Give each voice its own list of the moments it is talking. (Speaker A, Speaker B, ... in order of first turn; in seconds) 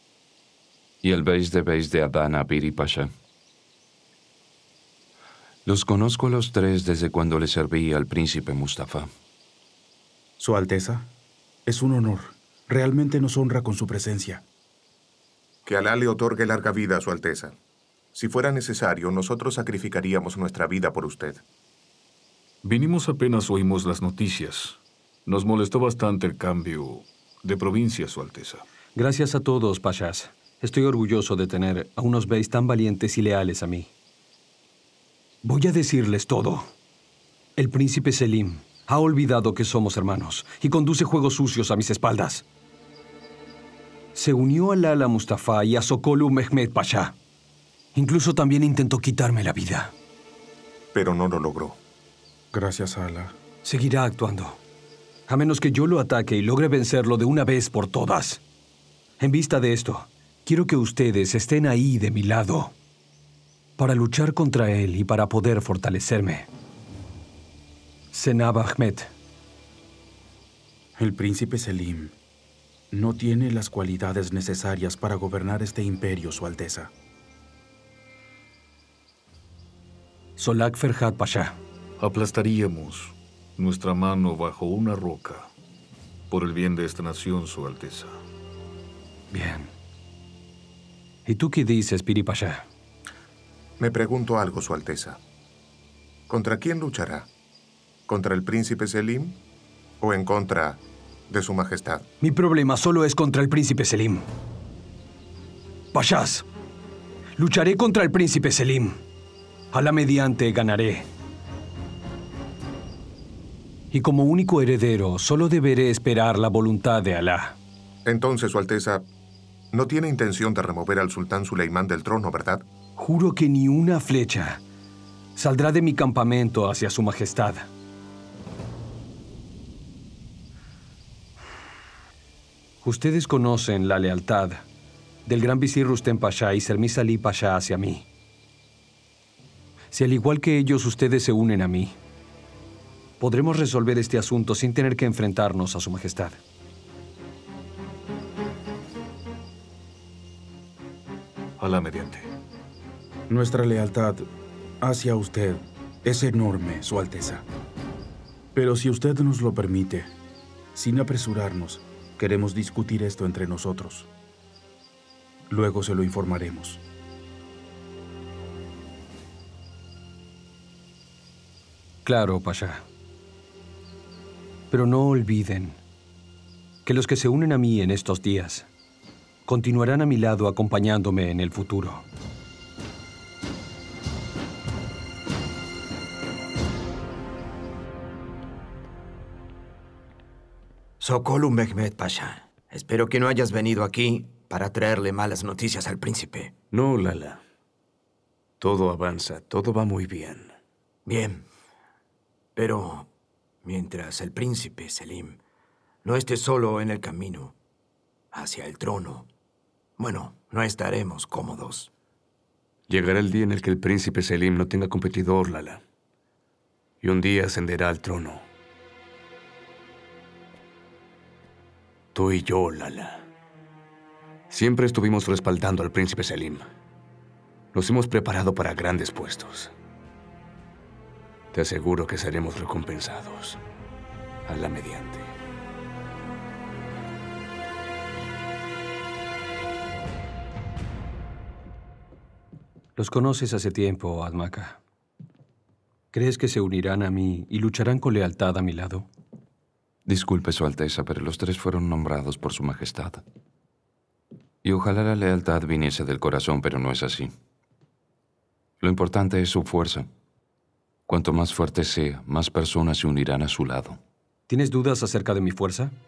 Speaker A: 1.0-3.1, 5.7-9.1, 250.1-253.2, 254.6-257.3, 258.8-260.1, 261.1-264.0
Speaker B: 10.4-11.1, 11.7-14.4, 52.5-53.3, 71.0-72.1, 72.9-76.9, 153.3-154.2, 154.8-157.4, 158.5-160.1, 160.7-164.1, 165.5-166.8
Speaker C: 15.6-17.5, 18.1-21.4, 50.9-51.8, 93.8-95.2, 96.3-97.3, 98.1-99.4, 100.0-102.1, 118.0-119.0, 119.7-122.6
Speaker D: 22.6-28.6, 82.0-85.5, 86.3-88.2, 151.6-152.2
Speaker E: 28.9-33.9, 35.4-36.7, 37.6-42.4, 44.1-47.1, 47.9-49.9, 53.6-54.6, 55.3-58.4, 59.2-62.7, 63.8-66.5, 68.1-69.1, 80.4-81.5, 89.3-89.7, 91.2-92.7, 102.2-104.2, 105.9-106.4, 107.4-109.0, 109.7-111.1, 113.9-117.5, 123.0-124.6, 125.3-127.7, 132.8-134.7, 135.2-138.1, 139.9-141.9, 143.2-146.4, 172.0-172.8, 174.7-175.8, 176.8-178.7, 179.4-182.1, 242.9-244.8, 246.1-249.1, 264.5-265.9
Speaker F: 191.0-196.5, 201.1-201.4, 202.6-203.1, 203.6-205.4, 206.0-207.5, 208.3-209.3, 210.0-211.9
Speaker G: 196.7-197.4, 198.6-200.5, 212.9-215.8, 217.0-218.4, 222.1-223.2, 224.5-226.7, 227.7-229.7, 231.5-233.6, 234.4-235.3